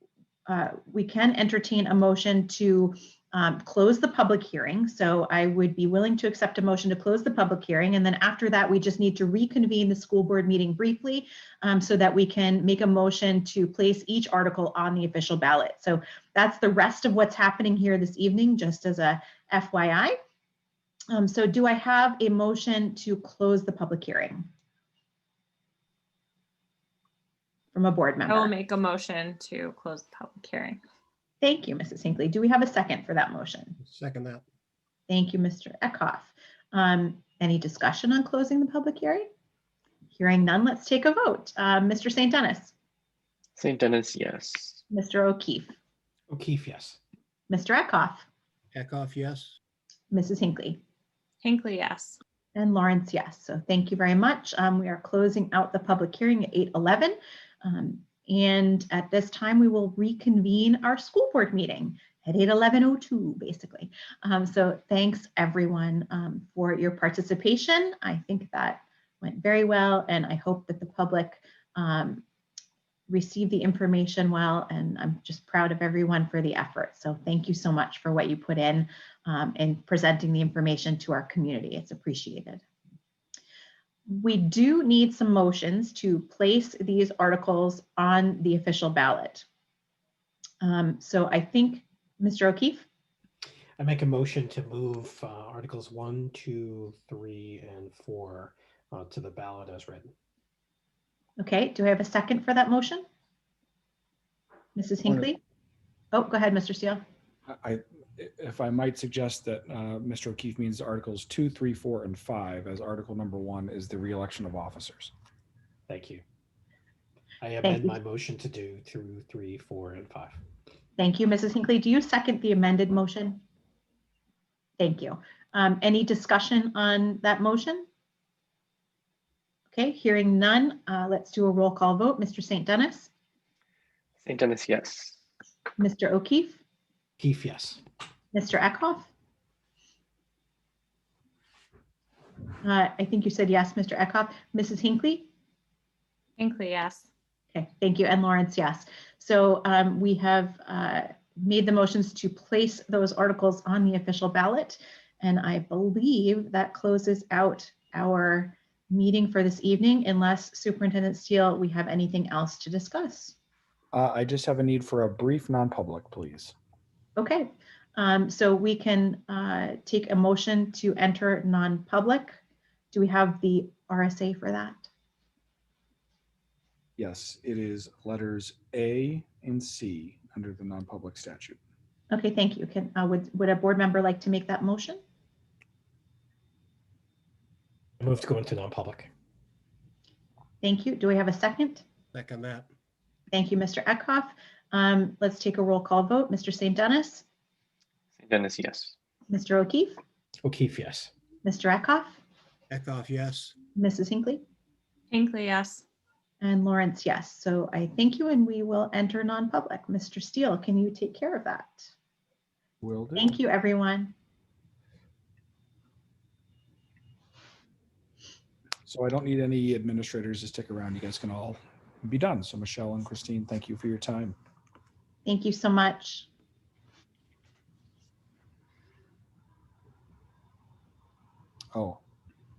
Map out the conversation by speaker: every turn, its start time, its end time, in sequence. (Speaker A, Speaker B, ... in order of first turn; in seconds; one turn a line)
Speaker A: 0.5-20.2
Speaker A: 21.1-24.5
Speaker A: 27.7-28.5
Speaker B: 28.3-30.8
Speaker A: 31.4-33.7
Speaker C: 33.8-34.4
Speaker A: 35.1-39.3
Speaker A: 40.1-42.7
Speaker D: 43.6-44.8
Speaker A: 44.9-45.8
Speaker E: 46.3-47.0
Speaker A: 47.5-48.3
Speaker C: 48.7-49.5
Speaker A: 50.1-50.8
Speaker B: 51.4-52.2
Speaker A: 52.5-72.2
Speaker A: 73.1-82.6
Speaker A: 84.1-89.5
Speaker A: 90.6-92.8
Speaker E: 93.8-100.1
Speaker A: 101.4-103.0
Speaker A: 104.8-105.4
Speaker A: 106.1-107.0
Speaker F: 107.5-115.1
Speaker E: 115.9-116.2
Speaker E: 117.4-120.4
Speaker A: 117.6-118.0
Speaker A: 121.0-123.4
Speaker A: 124.8-127.8
Speaker A: 129.7-133.1
Speaker D: 134.2-135.2
Speaker A: 135.8-136.6
Speaker E: 137.2-137.8
Speaker A: 138.3-139.1
Speaker A: 142.6-145.3
Speaker B: 146.4-147.1
Speaker A: 147.5-163.3
Speaker F: 163.9-166.5
Speaker A: 167.2-172.4
Speaker A: 172.9-174.9
Speaker F: 177.0-181.6
Speaker A: 182.1-185.0
Speaker E: 188.0-189.1
Speaker A: 190.6-191.8
Speaker C: 192.1-192.7
Speaker A: 193.3-197.2
Speaker D: 198.2-198.9
Speaker A: 199.3-200.0
Speaker E: 200.4-201.1
Speaker A: 201.4-202.2
Speaker C: 202.7-203.5
Speaker A: 203.7-204.4
Speaker B: 205.1-205.8
Speaker A: 206.4-211.9
Speaker F: 212.8-213.3
Speaker A: 213.2-214.1
Speaker F: 218.8-224.3
Speaker A: 225.2-226.3
Speaker F: 231.7-232.0